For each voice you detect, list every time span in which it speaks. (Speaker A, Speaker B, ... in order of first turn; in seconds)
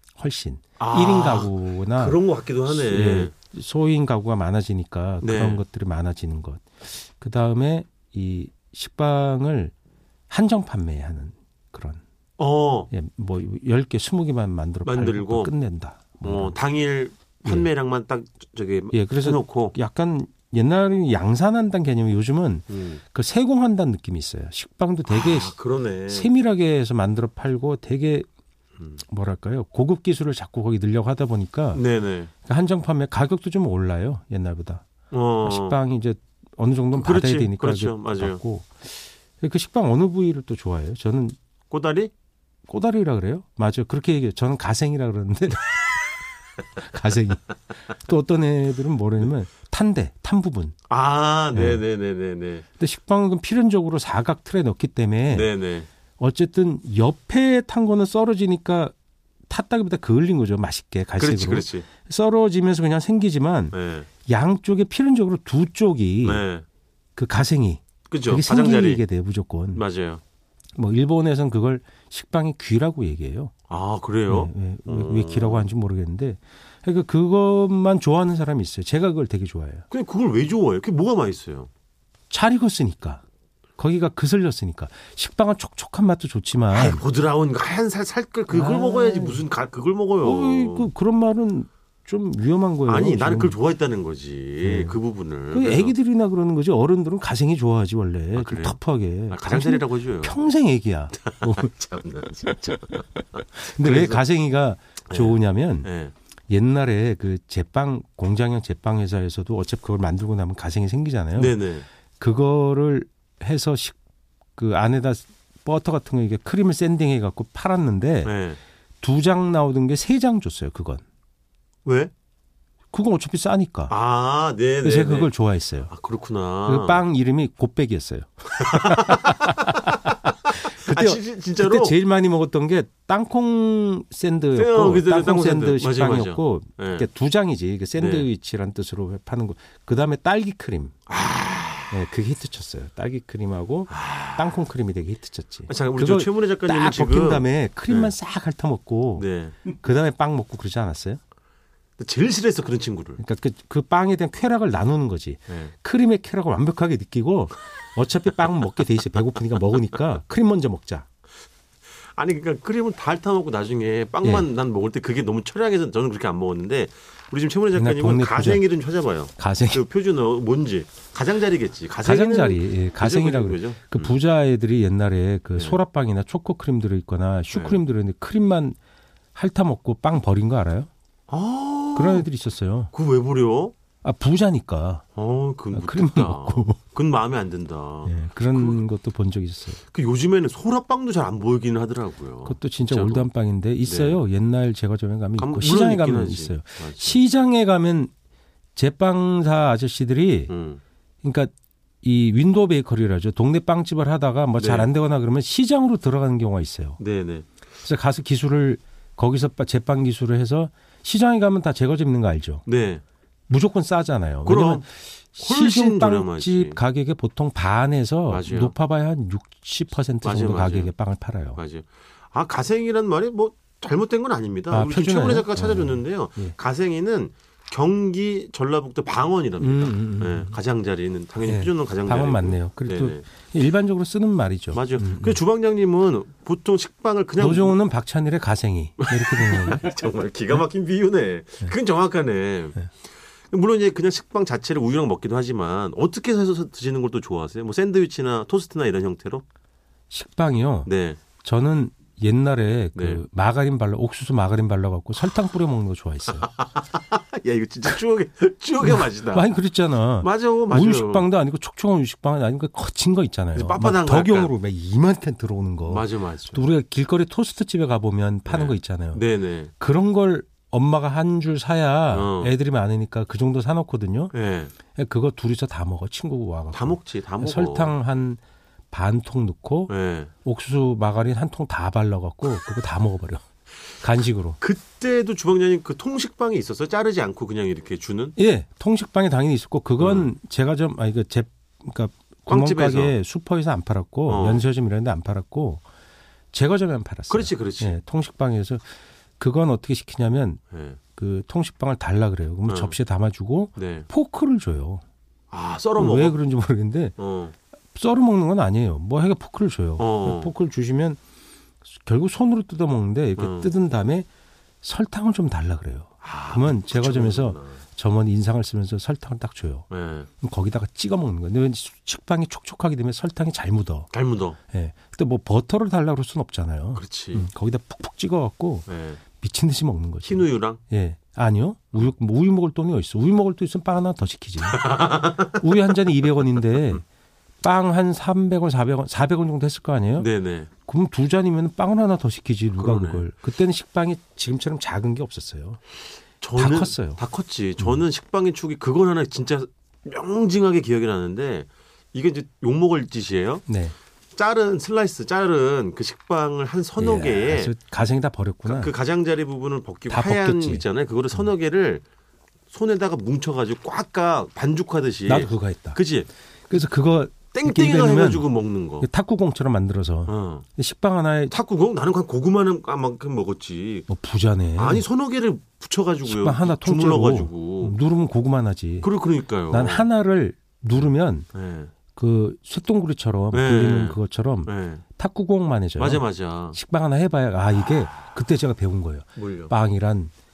Speaker A: 0.2-9.7, 10.3-12.0, 12.9-16.6, 18.9-25.6, 26.1-28.3, 29.1-31.8, 32.5-34.9, 35.4-41.4, 42.7-46.0, 46.8-50.8, 51.5-51.8, 52.8-55.5, 56.2-59.0, 59.5-66.4, 67.2-69.8, 70.8-73.5, 74.3-79.8, 82.3-83.2, 83.8-87.0, 88.5-89.4, 90.2-93.6, 94.6-95.0, 95.5-101.7, 103.5-105.9, 106.5-111.6, 112.2-114.0, 114.6-118.3, 119.0-121.0, 122.9-124.0, 124.8-125.9, 126.7-130.1, 130.7-141.0, 141.9-151.2, 153.2-161.1, 167.7-168.7, 169.4-169.8, 172.0-178.8, 179.3-180.9, 182.0-182.9, 184.0-185.0, 185.7-186.8, 188.1-189.8, 192.5-198.1, 198.8-200.5, 201.2-201.5, 202.0-207.0, 207.8-212.6, 213.5-221.6, 224.7-226.6, 229.6-230.6, 231.5-235.4, 237.4-239.8, 250.1-250.9, 251.4-256.5, 258.8-269.2, 269.8-274.3, 274.9-278.4, 278.9-279.9, 280.4-283.4, 284.0-284.6, 288.4-295.8, 296.5-298.8, 299.4-300.6, 301.2-305.0, 306.0-307.2, 307.9-311.2, 311.9-314.3, 314.8-319.9, 320.4-324.1, 324.7-328.9, 329.4-337.0, 337.6-340.3, 340.9-345.8, 346.6-347.2, 353.7-353.9, 357.0-358.9, 360.1-360.9, 365.3-366.0, 366.7-368.5, 369.0-371.6, 374.1-375.1, 376.2-379.1, 379.7-381.5, 382.1-390.3
Speaker B: 0.8-3.3, 5.2-5.6, 12.4-12.9, 14.8-15.5, 16.2-19.8, 22.7-23.0, 25.1-26.3, 31.7-32.3, 35.1-35.8, 36.9-38.4, 41.7-42.1, 50.9-52.6, 55.3-55.9, 61.2-61.9, 63.7-64.1, 66.2-66.7, 68.1-69.0, 69.7-70.2, 73.7-75.7, 79.9-81.7, 86.7-90.9, 92.9-96.0, 98.3-98.8, 99.3-100.5, 101.2-104.2, 105.1-106.1, 111.3-111.9, 118.2-118.6, 121.8-122.1, 123.9-125.3, 125.9-127.0, 128.6-129.7, 130.5-132.0, 134.5-137.1, 138.0-138.3, 141.1-141.9, 143.9-144.6, 145.7-148.1, 149.2-149.6, 152.0-153.2, 162.2-174.1, 177.5-177.8, 181.3-182.3, 182.9-183.8, 185.2-188.8, 189.8-193.3, 193.8-194.2, 195.4-197.2, 200.5-200.8, 204.6-204.9, 207.0-207.5, 212.7-213.0, 214.4-216.8, 218.3-218.7, 220.2-220.9, 221.6-233.2, 234.7-237.8, 239.0-242.9, 243.5-249.4, 250.8-251.2, 252.9-253.2, 256.4-259.5, 260.2-261.3, 263.6-264.5, 265.9-266.7, 268.5-269.7, 272.1-272.6, 274.3-274.7, 276.7-278.0, 279.9-280.3, 284.6-288.4, 290.0-290.3, 292.5-293.1, 294.3-294.6, 297.3-297.9, 300.7-301.0, 302.7-303.0, 303.8-304.1, 305.5-306.4, 307.2-307.5, 310.0-310.5, 313.4-313.7, 316.2-317.8, 319.9-320.3, 324.1-324.6, 326.9-327.5, 328.9-329.2, 330.2-330.8, 334.7-335.6, 340.2-340.7, 342.8-343.2, 346.4-353.6, 354.4-357.7, 358.6-362.0, 362.7-366.3, 367.5-369.1, 370.3-370.6, 371.5-374.1, 374.8-378.0, 379.0-380.1, 381.5-381.9, 383.5-385.0, 386.0-386.8, 389.4-389.7